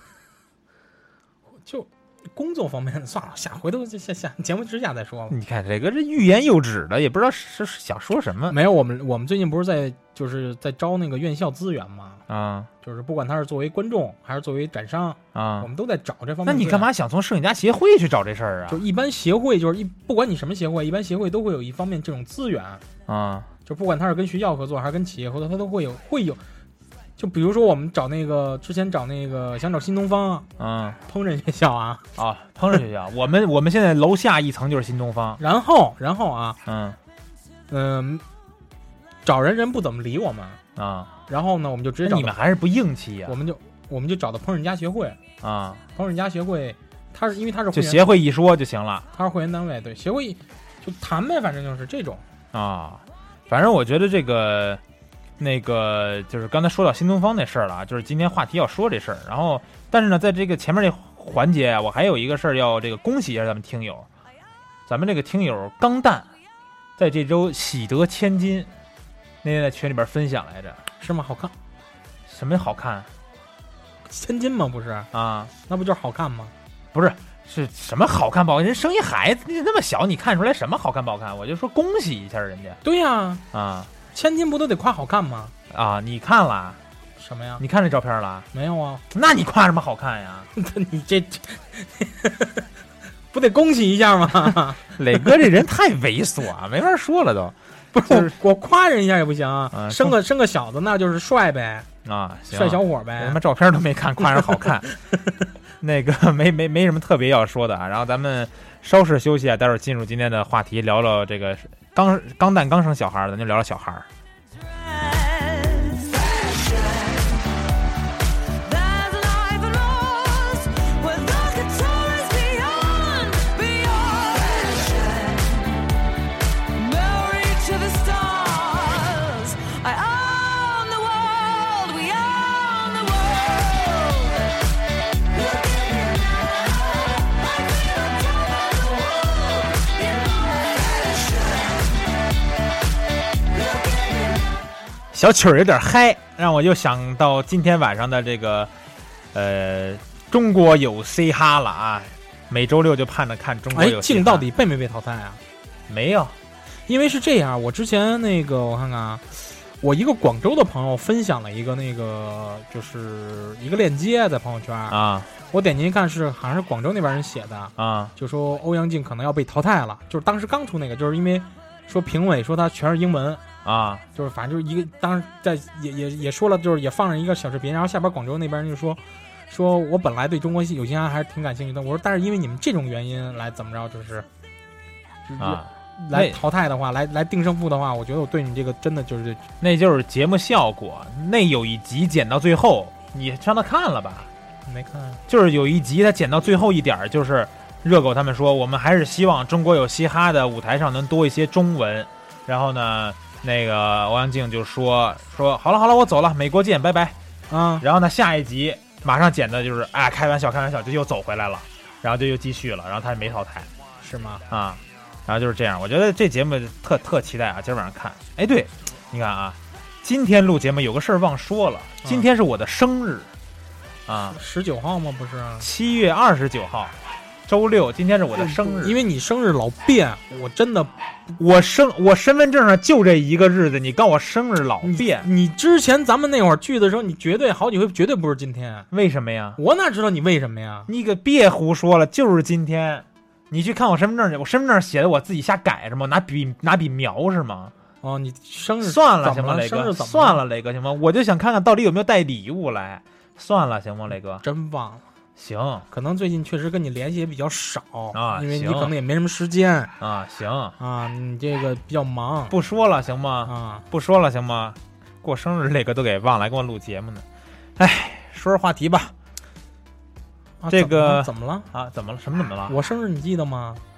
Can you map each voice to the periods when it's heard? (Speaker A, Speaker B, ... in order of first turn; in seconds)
Speaker A: 1.7-5.4, 8.5-12.2, 12.8-16.9, 18.7-22.8, 23.7-26.4, 27.2-30.5, 31.1-32.0, 35.4-36.6, 37.7-38.2, 39.2-40.6, 41.3-42.4, 43.3-45.2, 46.0-48.1, 49.1-52.2, 71.0-71.5, 74.1-75.1, 75.7-76.5, 82.8-83.5, 84.1-85.5, 87.2-87.6, 88.5-89.0, 90.5-92.7, 93.3-95.3, 97.9-101.9, 102.5-103.4, 104.2-105.0, 153.7-155.4, 156.9-165.0, 165.5-173.4, 174.2-184.3, 185.3-189.4, 194.7-195.2, 207.5-207.8, 214.0-214.4, 224.3-225.7, 228.4-230.9, 234.8-238.9, 239.6-240.9, 248.0-250.4, 254.4-255.0, 255.9-259.9, 260.8-262.6, 263.5-263.9, 270.6-271.7, 272.7-273.8
Speaker B: 5.3-8.6, 12.3-12.7, 15.3-15.7, 16.5-18.8, 23.1-23.5, 30.6-31.0, 32.2-35.4, 36.7-37.0, 40.8-41.1, 42.0-43.4, 45.4-45.8, 47.7-49.1, 52.5-54.8, 55.4-64.1, 64.9-66.3, 67.0-68.7, 69.4-70.8, 72.3-73.1, 75.1-75.5, 76.9-82.8, 83.5-83.9, 85.7-86.8, 87.6-88.5, 89.1-90.5, 95.0-98.3, 99.7-100.2, 102.0-104.9, 105.8-114.1, 145.1-148.7, 149.3-154.5, 155.9-156.4, 164.9-165.3, 167.8-168.1, 173.7-174.1, 185.4-186.4, 189.6-194.3, 195.3-207.2, 207.8-213.7, 214.5-223.3, 224.1-224.4, 225.6-226.9, 227.5-229.0, 231.4-235.3, 238.9-239.6, 240.9-247.7, 248.8-254.4, 255.4-255.9, 258.1-258.9, 260.0-260.8, 262.5-267.2, 267.8-269.1, 270.7-272.8
Speaker C: 114.8-117.5, 118.6-125.8, 126.7-142.0, 143.4-144.6